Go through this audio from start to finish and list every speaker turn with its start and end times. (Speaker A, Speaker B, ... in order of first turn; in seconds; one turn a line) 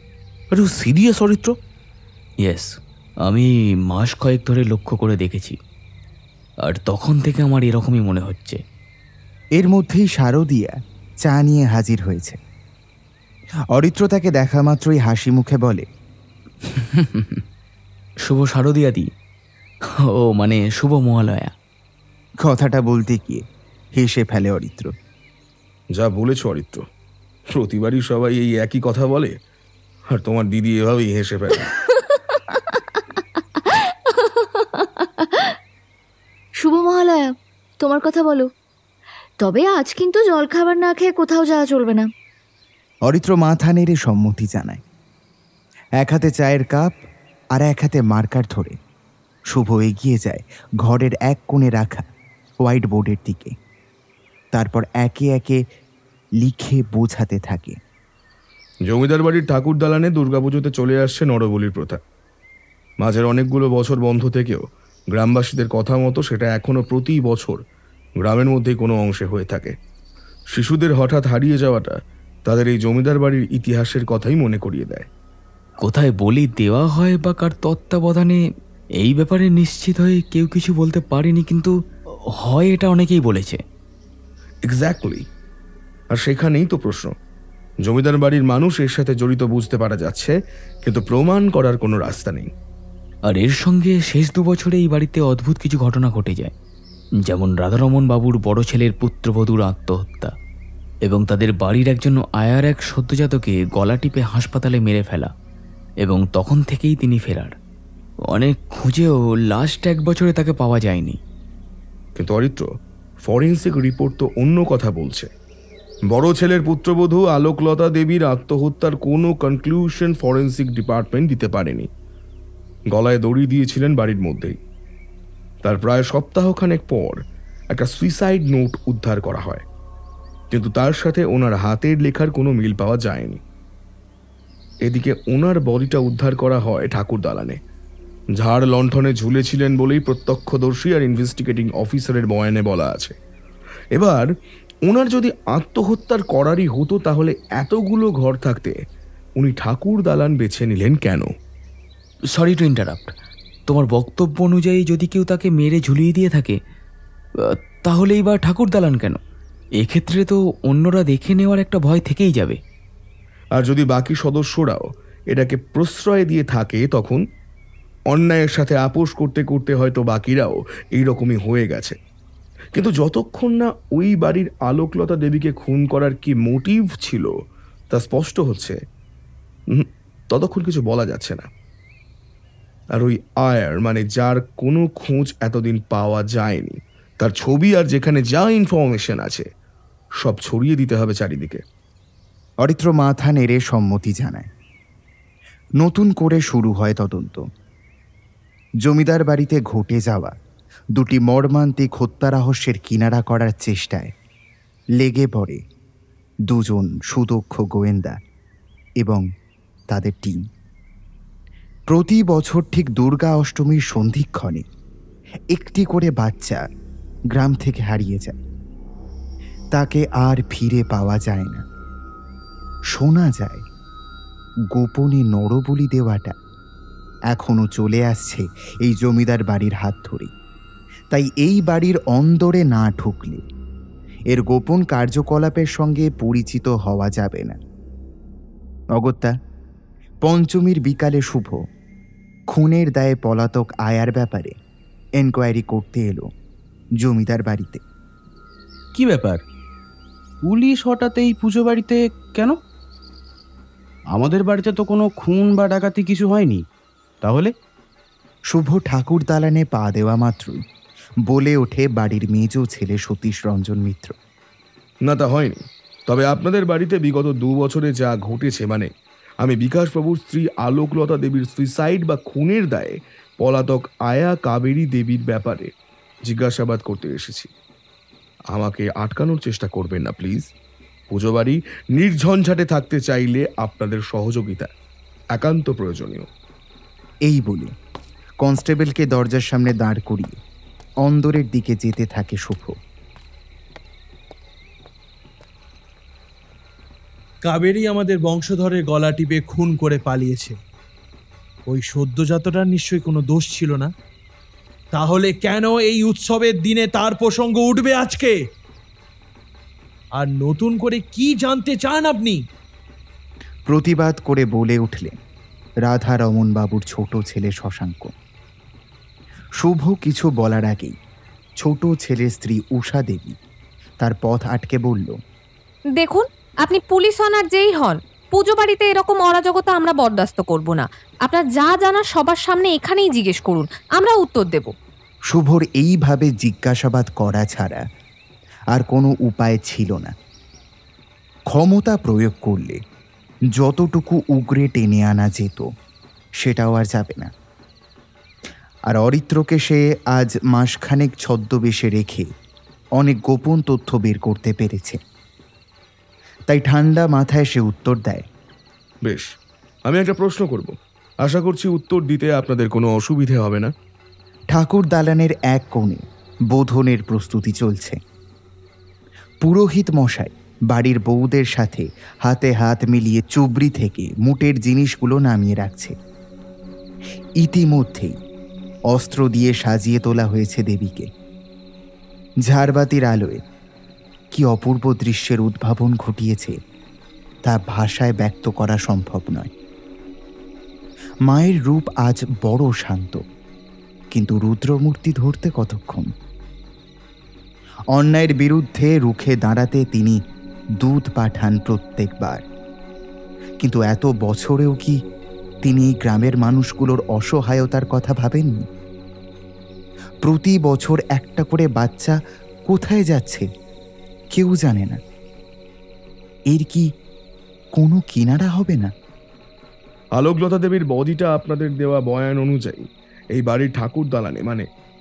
Speaker A: 0.6-1.5
Speaker A: 2.4-2.7
Speaker A: 3.3-5.6
Speaker A: 6.7-8.6
Speaker B: 9.6-12.4
Speaker B: 13.7-15.9
Speaker A: 16.7-17.4
Speaker A: 18.3-19.1
Speaker A: 20.2-21.5
Speaker B: 22.4-23.4
Speaker B: 24.0-24.9
Speaker C: 26.0-26.8
Speaker C: 27.5-29.4
Speaker C: 30.1-31.7
Speaker D: 33.6-35.5
Speaker D: 36.6-38.5
Speaker D: 39.4-42.1
Speaker B: 43.1-44.8
Speaker B: 46.0-46.9
Speaker B: 47.5-48.8
Speaker B: 49.5-52.0
Speaker B: 52.6-53.5
Speaker B: 54.5-55.6
Speaker B: 56.4-57.8
Speaker C: 58.9-62.0
Speaker C: 63.0-67.6
Speaker C: 68.2-69.8
Speaker C: 70.5-72.0
Speaker C: 72.5-75.1
Speaker A: 75.8-78.4
Speaker A: 79.0-81.7
Speaker A: 82.4-83.6
Speaker C: 84.7-85.3
Speaker C: 86.1-87.1
Speaker C: 87.8-92.5
Speaker A: 93.3-96.5
Speaker A: 97.3-100.3
Speaker A: 101.1-105.3
Speaker A: 106.0-107.5
Speaker A: 108.3-111.2
Speaker C: 112.2-112.7
Speaker C: 113.2-115.3
Speaker C: 116.1-121.9
Speaker C: 122.9-124.6
Speaker C: 125.6-129.7
Speaker C: 130.5-133.4
Speaker C: 134.8-137.6
Speaker C: 138.4-143.2
Speaker C: 144.0-144.3
Speaker C: 144.9-148.8
Speaker C: 149.4-151.3
Speaker A: 152.3-153.1
Speaker A: 153.7-156.6
Speaker A: 157.8-159.2
Speaker A: 159.8-162.6
Speaker C: 163.6-167.2
Speaker C: 168.1-172.0
Speaker C: 172.7-177.3
Speaker C: 177.9-178.8
Speaker C: 179.7-181.5
Speaker C: 183.0-189.5
Speaker C: 190.2-191.6
Speaker B: 192.6-194.5
Speaker B: 195.8-197.4
Speaker B: 198.8-200.3
Speaker B: 201.0-204.1
Speaker B: 205.0-205.6
Speaker B: 206.5-208.2
Speaker B: 209.9-210.5
Speaker B: 211.9-214.7
Speaker B: 215.5-216.6
Speaker B: 217.3-218.4
Speaker B: 219.7-221.6
Speaker B: 222.9-223.7
Speaker B: 224.7-226.3
Speaker B: 227.3-230.3
Speaker B: 231.1-233.4
Speaker B: 234.3-237.6
Speaker B: 239.0-239.4
Speaker B: 240.2-241.6
Speaker B: 242.5-244.6
Speaker B: 245.2-246.3
Speaker B: 247.0-247.8
Speaker E: 249.0-249.4
Speaker E: 250.5-252.5
Speaker E: 254.1-256.6
Speaker E: 257.2-257.5
Speaker B: 258.5-260.6
Speaker B: 261.3-264.2
Speaker C: 265.1-268.9
Speaker C: 269.4-275.7
Speaker C: 276.3-277.5
Speaker C: 278.5-280.5
Speaker C: 281.1-284.7
Speaker C: 285.3-286.3
Speaker B: 287.3-287.7
Speaker B: 288.4-290.4
Speaker B: 291.0-292.8
Speaker F: 297.4-300.6
Speaker F: 301.7-303.9
Speaker F: 304.9-308.3
Speaker F: 310.2-312.4
Speaker B: 313.7-315.2
Speaker B: 315.9-318.1
Speaker B: 319.6-321.0
Speaker B: 321.6-323.4
Speaker B: 324.0-325.2
Speaker G: 326.0-334.7
Speaker B: 335.3-337.9
Speaker B: 338.7-340.1
Speaker B: 341.5-342.8
Speaker B: 343.6-345.7
Speaker B: 346.4-347.3
Speaker B: 348.9-352.3
Speaker B: 353.0-355.0
Speaker B: 356.5-358.3
Speaker C: 359.1-359.3
Speaker C: 359.9-363.7
Speaker B: 364.5-368.0
Speaker B: 369.4-375.9
Speaker B: 377.4-378.2
Speaker B: 378.9-381.1
Speaker B: 382.5-383.4
Speaker B: 384.3-386.6
Speaker B: 387.4-389.5
Speaker B: 391.3-393.2
Speaker B: 394.1-396.1
Speaker B: 397.9-400.2
Speaker B: 400.8-402.4
Speaker B: 403.6-405.0
Speaker B: 405.6-408.7
Speaker B: 410.2-413.5
Speaker B: 414.3-415.0
Speaker B: 416.5-416.9
Speaker B: 417.8-418.9
Speaker C: 420.2-424.7